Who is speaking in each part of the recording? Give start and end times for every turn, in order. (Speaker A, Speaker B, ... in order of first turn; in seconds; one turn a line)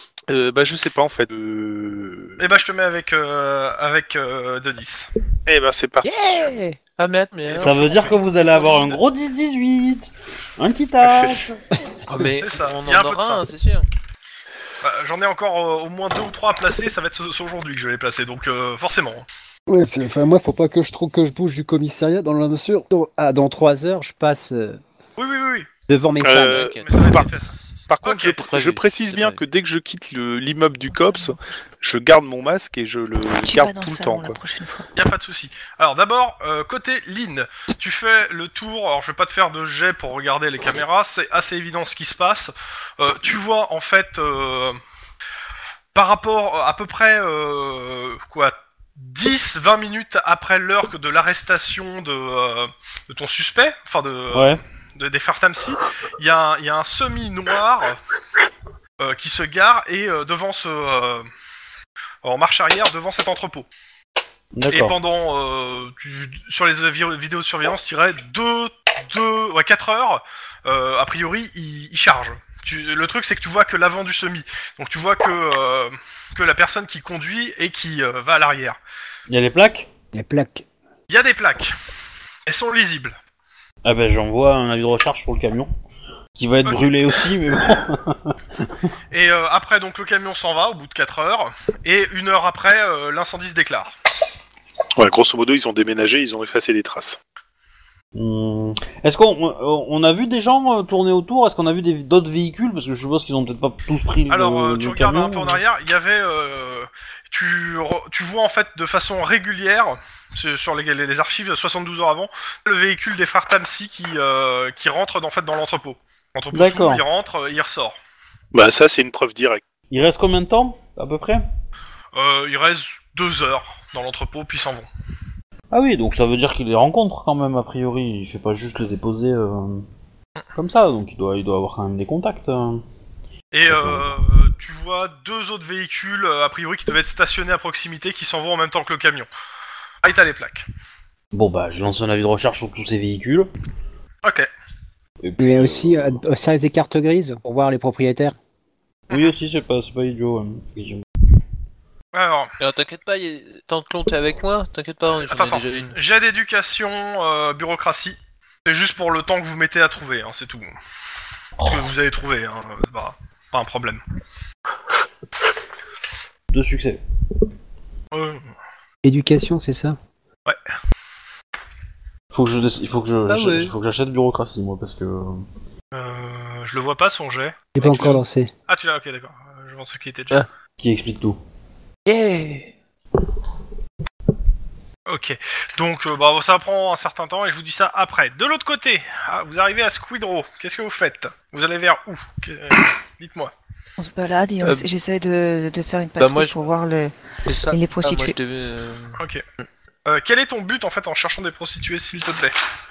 Speaker A: 0.3-2.5
Speaker B: 2.4-5.1
Speaker A: 5.5-6.5
Speaker C: 6.0-9.0
Speaker B: 7.5-8.2
Speaker D: 7.6-11.6
Speaker C: 12.1-13.9
Speaker B: 12.4-13.5
Speaker B: 14.8-19.3
Speaker E: 19.7-24.8
Speaker B: 25.2-25.7
Speaker E: 25.9-26.7
Speaker A: 26.2-27.3
Speaker C: 26.3-27.7
Speaker B: 26.8-27.5
Speaker A: 27.9-34.4
Speaker B: 28.0-28.4
Speaker C: 28.3-29.4
Speaker F: 33.4-34.9
Speaker B: 35.0-44.8
Speaker B: 45.9-58.0
Speaker D: 54.3-54.6
Speaker B: 59.0-61.3
Speaker B: 62.2-63.7
Speaker D: 64.5-65.0
Speaker B: 64.7-78.8
Speaker D: 79.3-79.9
Speaker E: 80.1-80.7
Speaker B: 81.1-81.8
Speaker B: 82.5-83.2
Speaker D: 83.8-85.7
Speaker D: 86.4-88.8
Speaker B: 89.1-94.0
Speaker A: 95.0-97.2
Speaker D: 98.2-105.6
Speaker B: 104.3-118.0
Speaker D: 116.5-117.0
Speaker A: 118.5-119.6
Speaker D: 119.9-121.4
Speaker B: 122.2-124.9
Speaker D: 125.7-129.9
Speaker D: 130.6-132.8
Speaker B: 133.5-139.3
Speaker D: 133.7-134.2
Speaker B: 140.0-140.7
Speaker D: 141.3-143.5
Speaker B: 144.2-144.5
Speaker D: 145.2-146.2
Speaker E: 145.4-148.3
Speaker D: 149.1-151.1
Speaker B: 152.1-152.6
Speaker C: 152.6-156.0
Speaker B: 155.2-160.7
Speaker B: 161.6-164.0
Speaker D: 166.5-167.0
Speaker B: 168.1-168.4
Speaker E: 169.0-170.0
Speaker D: 172.3-175.4
Speaker C: 173.3-173.7
Speaker B: 175.9-180.4
Speaker E: 177.8-178.5
Speaker D: 180.8-181.4
Speaker C: 182.1-182.7
Speaker B: 185.1-193.5
Speaker F: 194.0-197.1
Speaker C: 194.6-194.9
Speaker C: 196.2-196.6
Speaker C: 197.4-199.2
Speaker F: 197.7-198.4
Speaker B: 199.2-199.4
Speaker B: 200.1-202.6